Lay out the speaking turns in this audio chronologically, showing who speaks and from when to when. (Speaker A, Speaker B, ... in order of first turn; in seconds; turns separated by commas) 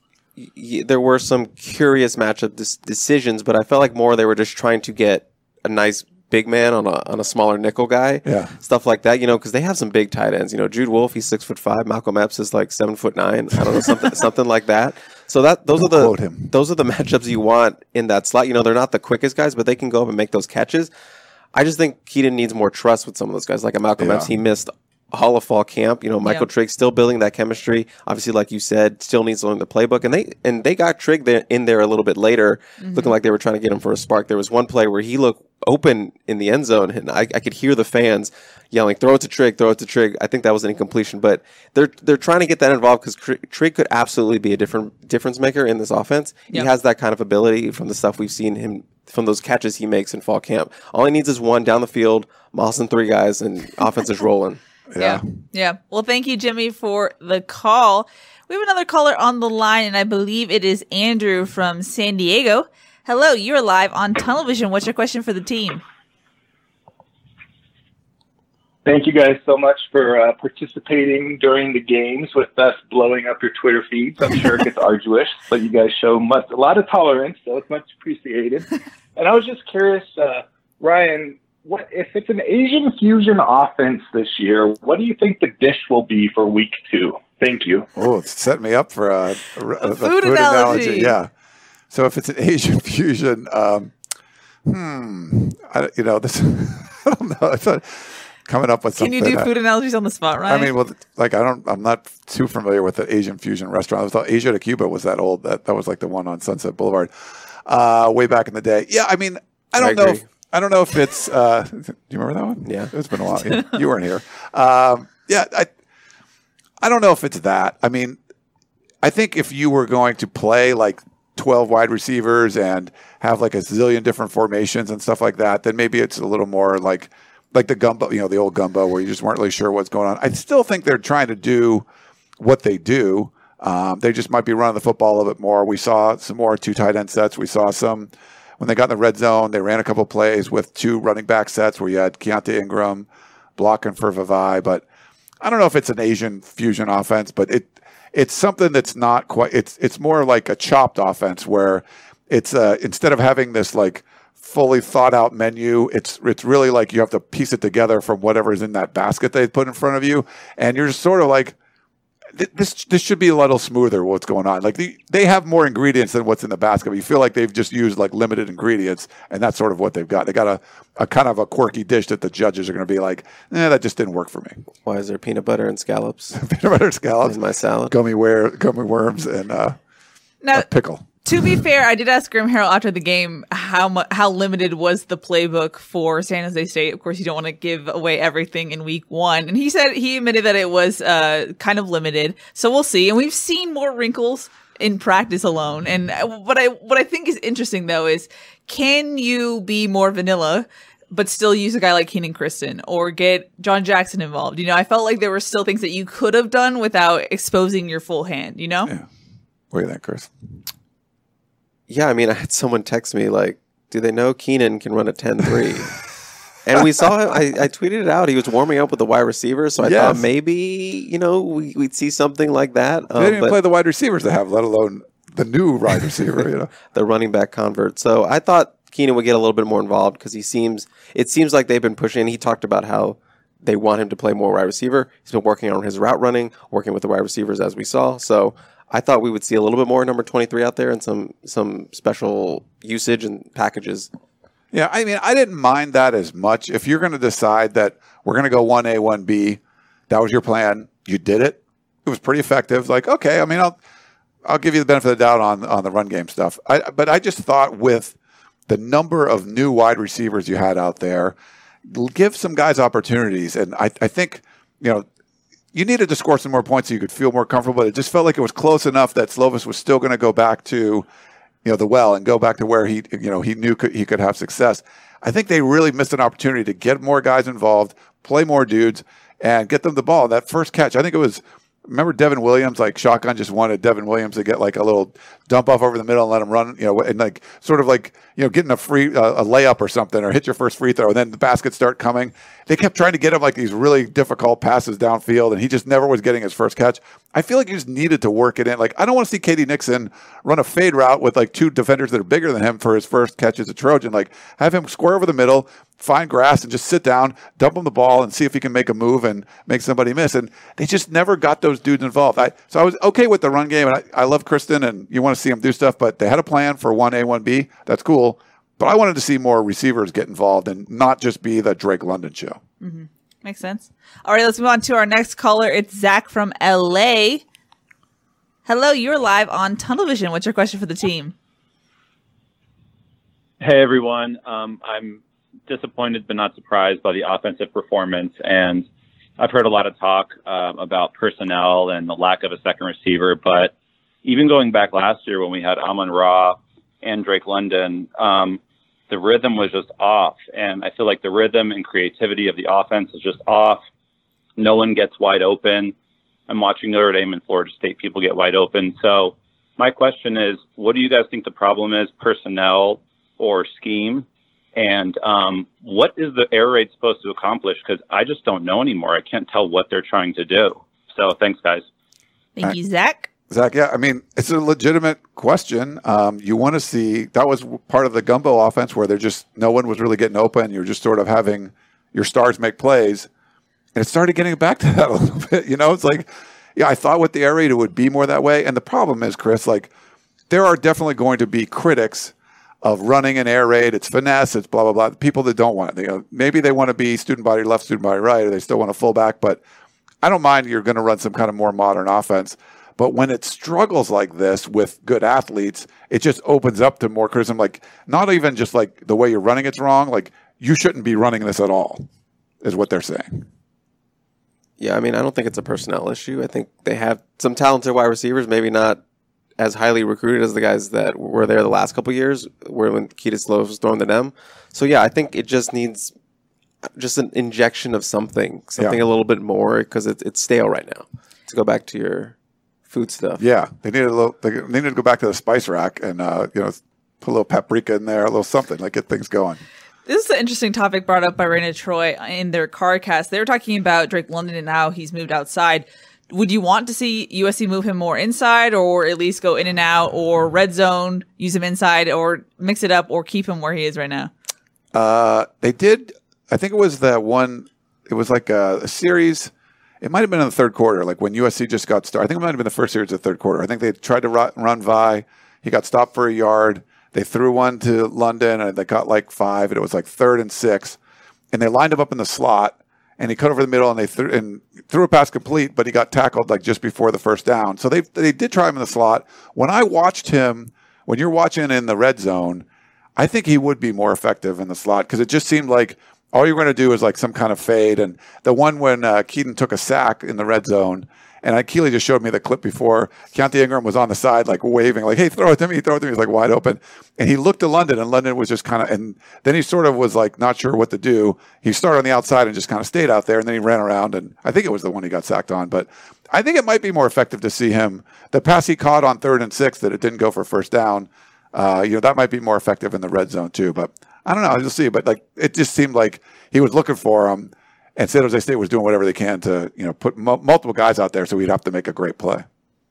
Speaker A: 0.4-20.9, Speaker B: 8.2-8.5, Speaker B: 15.8-16.5, Speaker A: 21.5-54.6, Speaker B: 24.0-24.3, Speaker C: 32.8-33.1, Speaker B: 54.9-55.2, Speaker C: 55.0-65.8, Speaker D: 68.8-87.9, Speaker B: 88.0-91.3, Speaker C: 89.8-91.2, Speaker B: 91.9-93.9, Speaker B: 94.7-99.5, Speaker C: 99.0-100.7, Speaker B: 100.5-107.1, Speaker B: 107.7-115.7, Speaker A: 109.8-110.2, Speaker A: 112.7-112.9, Speaker B: 116.8-118.2, Speaker B: 119.0-131.9, Speaker B: 132.4-144.8, Speaker B: 145.4-161.6, Speaker B: 162.4-174.6, Speaker A: 174.8-176.4, Speaker B: 176.3-179.8, Speaker A: 177.2-177.9, Speaker C: 180.4-180.7, Speaker B: 180.5-181.6, Speaker C: 181.2-208.9, Speaker B: 209.7-210.3, Speaker A: 211.9-216.0, Speaker A: 216.7-223.6, Speaker B: 219.8-220.2, Speaker B: 223.2-226.7, Speaker A: 226.9-244.1, Speaker B: 244.7-253.8, Speaker B: 254.5-258.2, Speaker B: 258.7-261.4, Speaker B: 261.9-265.1, Speaker B: 265.7-271.1, Speaker B: 271.6-322.6, Speaker C: 322.8-327.4, Speaker C: 328.7-331.4, Speaker E: 333.6-338.9, Speaker E: 339.4-343.7, Speaker E: 344.2-353.8, Speaker E: 354.6-355.9, Speaker E: 356.5-364.2, Speaker E: 364.8-371.9, Speaker C: 372.6-373.3, Speaker B: 373.5-383.3, Speaker B: 383.9-389.9, Speaker B: 390.5-399.6, Speaker B: 400.2-412.1, Speaker B: 412.6-413.4, Speaker A: 414.8-419.0, Speaker A: 419.6-426.1, Speaker A: 426.9-432.4, Speaker A: 432.9-433.4, Speaker B: 433.4-439.6, Speaker C: 440.1-454.3, Speaker B: 454.9-471.0, Speaker B: 471.5-482.6, Speaker B: 483.2-522.5